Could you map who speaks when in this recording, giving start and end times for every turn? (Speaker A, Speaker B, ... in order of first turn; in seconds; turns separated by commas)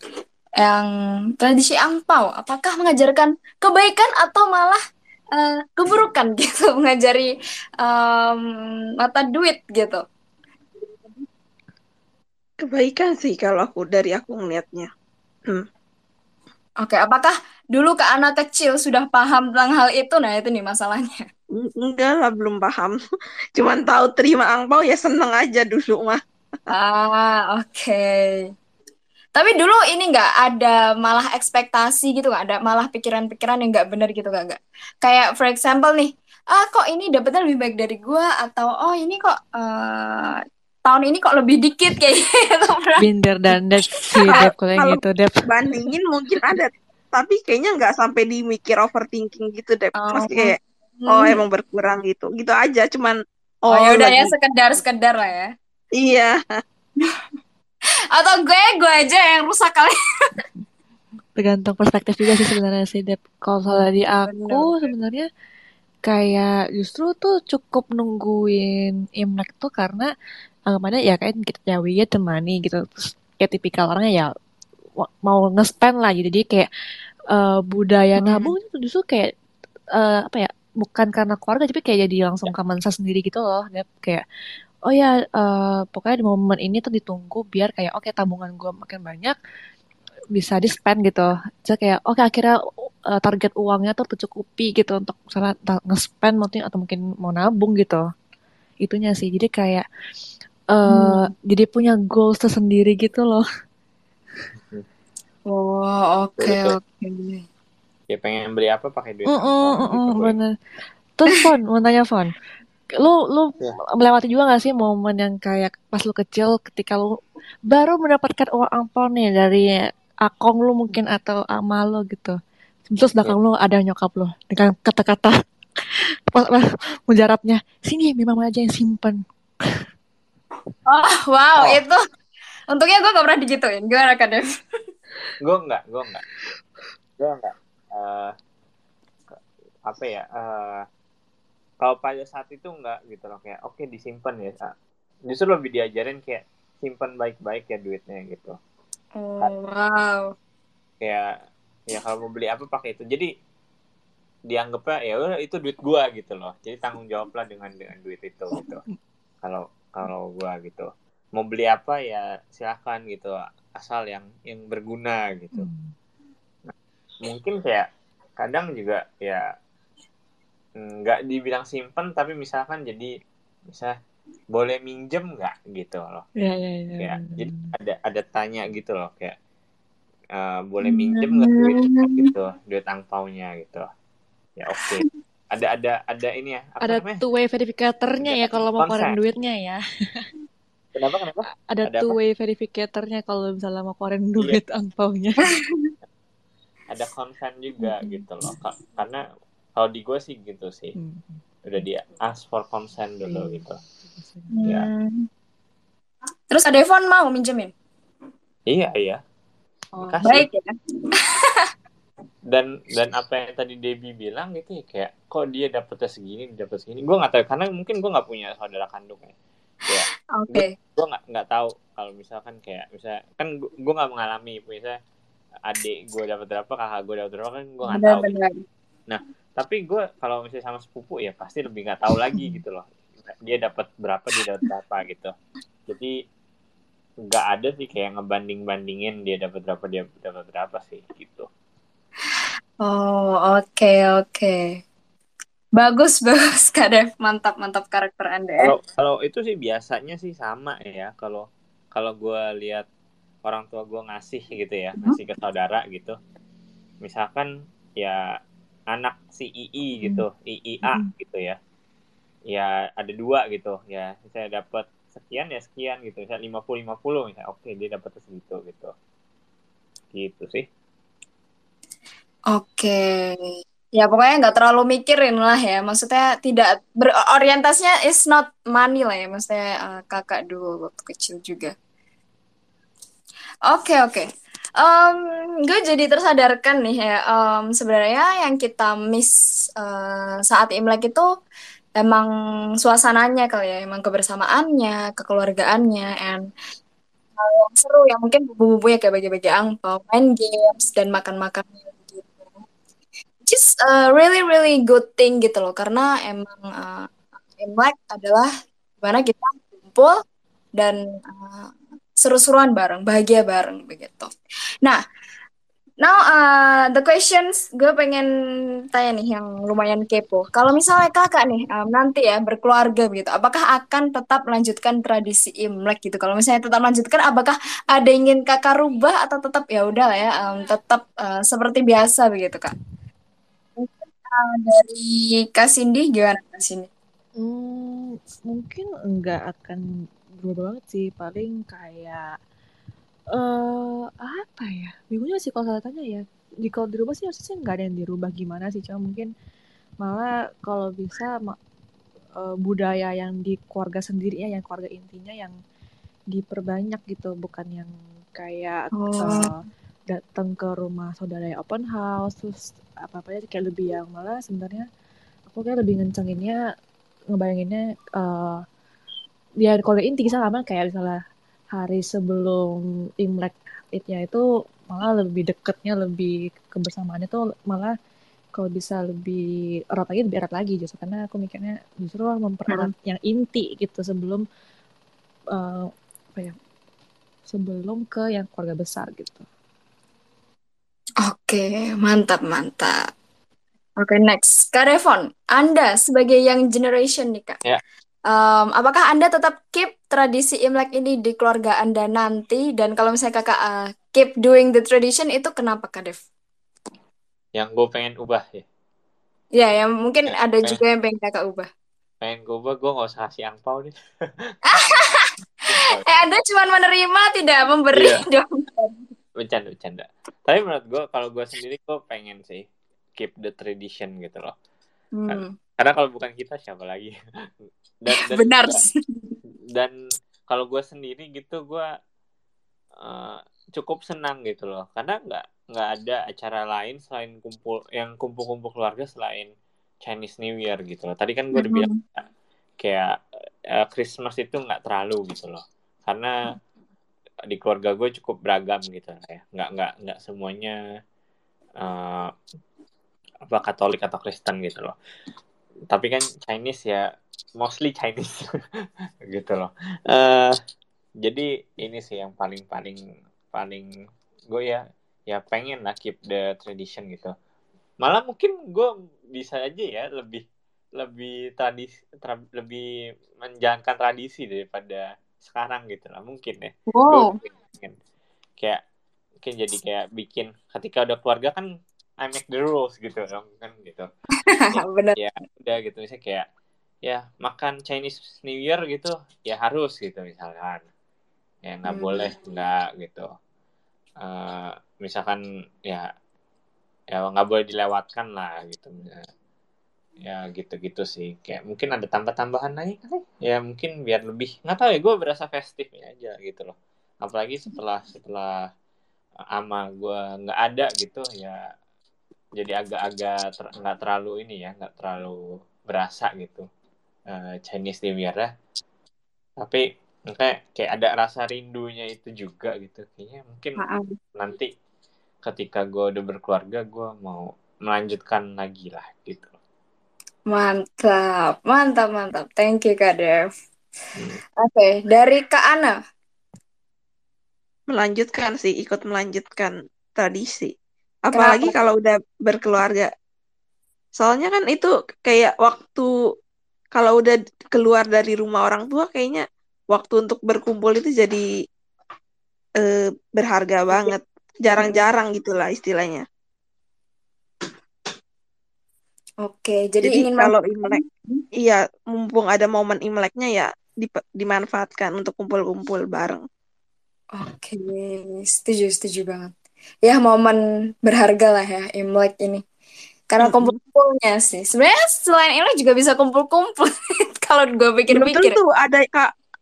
Speaker A: 0.6-4.8, Speaker A: 5.3-7.3, Speaker A: 7.8-8.4, Speaker A: 9.0-10.0, Speaker B: 12.6-14.9, Speaker A: 16.8-21.2, Speaker B: 21.6-22.9, Speaker B: 23.6-26.2, Speaker A: 26.7-28.4, Speaker A: 29.4-43.0, Speaker C: 43.0-45.5, Speaker B: 44.3-50.6, Speaker A: 50.0-51.4, Speaker B: 51.1-53.1, Speaker B: 53.7-54.3, Speaker A: 53.7-55.5, Speaker B: 56.0-56.6, Speaker A: 58.1-59.9, Speaker C: 61.4-65.3, Speaker A: 64.2-64.7, Speaker C: 66.0-70.1, Speaker C: 70.7-74.3, Speaker C: 75.0-76.7, Speaker C: 77.3-79.3, Speaker A: 78.2-78.5, Speaker C: 79.9-84.2, Speaker C: 84.9-89.3, Speaker C: 90.3-92.5, Speaker C: 93.1-98.0, Speaker C: 98.8-99.8, Speaker C: 100.7-103.4, Speaker A: 100.9-101.3, Speaker A: 105.5-107.4, Speaker D: 106.4-106.8, Speaker D: 108.1-110.3, Speaker C: 109.3-110.5, Speaker C: 111.2-112.3, Speaker C: 112.9-117.1, Speaker C: 117.7-122.4, Speaker C: 122.9-125.3, Speaker C: 126.3-129.2, Speaker A: 130.9-132.0, Speaker A: 132.7-134.4, Speaker D: 135.4-136.2, Speaker D: 137.2-138.3, Speaker D: 139.3-140.8, Speaker D: 141.8-144.7, Speaker D: 145.3-148.6, Speaker A: 149.2-150.3, Speaker D: 151.0-151.3, Speaker D: 151.9-153.3, Speaker D: 154.5-158.8, Speaker D: 159.4-165.7, Speaker C: 165.6-165.9, Speaker D: 167.2-167.8, Speaker D: 168.4-169.4, Speaker D: 170.8-173.1, Speaker D: 173.7-173.9, Speaker D: 174.5-176.2, Speaker C: 176.4-177.7, Speaker D: 177.0-179.3, Speaker D: 180.3-183.8, Speaker A: 180.9-182.3, Speaker D: 184.6-187.2, Speaker C: 186.8-190.3, Speaker D: 188.2-189.2, Speaker D: 190.9-192.2, Speaker C: 191.7-195.5, Speaker A: 195.5-195.9, Speaker D: 196.9-199.2, Speaker C: 197.8-198.2, Speaker D: 199.8-200.9, Speaker C: 201.0-201.4, Speaker D: 201.6-203.8, Speaker C: 203.2-204.5, Speaker A: 204.5-205.3, Speaker A: 206.5-207.7, Speaker D: 208.7-209.2, Speaker C: 209.9-210.4, Speaker D: 210.0-210.5, Speaker A: 210.2-210.7, Speaker A: 211.3-211.6, Speaker D: 212.5-219.3, Speaker D: 219.9-225.0, Speaker A: 220.3-220.7, Speaker D: 225.7-228.3, Speaker A: 227.9-228.6, Speaker D: 229.1-235.3, Speaker D: 235.9-236.1, Speaker D: 237.3-241.5, Speaker A: 242.8-244.8, Speaker A: 245.8-248.7, Speaker D: 248.6-252.8, Speaker D: 253.4-256.1, Speaker D: 257.0-258.2, Speaker D: 258.9-261.6, Speaker D: 262.5-268.9, Speaker D: 270.1-270.6, Speaker A: 272.5-273.4, Speaker A: 274.0-281.7, Speaker A: 283.7-284.2, Speaker A: 284.8-291.2, Speaker A: 292.0-292.3, Speaker A: 292.8-296.4, Speaker A: 297.4-302.5, Speaker A: 303.4-307.1, Speaker A: 307.6-308.5, Speaker A: 309.0-310.1, Speaker A: 310.8-314.3, Speaker A: 316.0-318.3, Speaker A: 318.9-332.7, Speaker A: 333.8-336.9, Speaker C: 337.4-339.8, Speaker C: 340.4-342.2, Speaker C: 343.3-349.3, Speaker C: 350.0-351.6, Speaker C: 352.4-355.5, Speaker C: 356.3-359.6, Speaker A: 359.0-359.5, Speaker C: 360.1-364.9, Speaker C: 365.5-366.6, Speaker C: 367.3-368.6, Speaker C: 369.6-371.2, Speaker C: 371.7-377.9, Speaker C: 378.5-384.4, Speaker C: 385.5-386.5, Speaker C: 387.5-389.4, Speaker A: 391.2-392.9, Speaker A: 394.0-397.6, Speaker A: 398.3-406.2, Speaker D: 407.6-408.6, Speaker A: 409.6-411.7, Speaker D: 412.2-413.9, Speaker A: 414.7-415.3, Speaker D: 415.7-416.3, Speaker A: 416.0-419.0, Speaker D: 417.9-418.2, Speaker D: 419.4-422.6, Speaker D: 423.2-424.5, Speaker A: 425.2-425.5, Speaker D: 425.3-427.1, Speaker D: 428.0-428.8, Speaker A: 428.1-429.3, Speaker D: 430.5-431.9, Speaker D: 433.0-439.5, Speaker D: 440.0-441.9, Speaker A: 441.6-442.0, Speaker D: 442.8-443.1, Speaker D: 443.8-446.4, Speaker D: 447.5-450.8, Speaker D: 451.8-452.3, Speaker D: 453.5-454.9, Speaker D: 455.9-457.0, Speaker D: 457.6-458.5, Speaker D: 459.3-460.6, Speaker D: 461.2-463.0, Speaker D: 463.5-463.9, Speaker D: 464.5-467.3, Speaker D: 468.0-470.4, Speaker D: 471.0-472.9, Speaker D: 473.4-477.9, Speaker A: 476.9-477.3, Speaker D: 479.4-481.7, Speaker D: 482.2-484.1, Speaker A: 484.5-485.2, Speaker D: 484.7-486.4, Speaker D: 487.1-490.8, Speaker D: 491.6-493.3, Speaker A: 491.9-492.3, Speaker D: 494.2-496.1, Speaker D: 497.1-499.2, Speaker D: 500.2-508.6, Speaker D: 509.6-511.6, Speaker D: 512.6-516.6, Speaker D: 517.3-518.5, Speaker D: 519.6-523.8, Speaker A: 523.8-524.1, Speaker D: 524.4-524.7, Speaker D: 525.5-529.5, Speaker A: 530.5-533.4, Speaker A: 534.6-535.9, Speaker B: 537.9-540.7, Speaker B: 541.3-543.1, Speaker A: 541.3-541.7, Speaker B: 544.2-546.1, Speaker B: 546.9-551.4, Speaker B: 552.8-556.2, Speaker A: 554.7-555.0, Speaker A: 559.4-561.4, Speaker B: 560.0-561.0, Speaker B: 561.6-566.4, Speaker A: 567.3-569.5, Speaker A: 570.0-572.6, Speaker A: 573.3-576.9, Speaker B: 573.4-573.7, Speaker A: 577.4-578.6, Speaker B: 578.1-579.3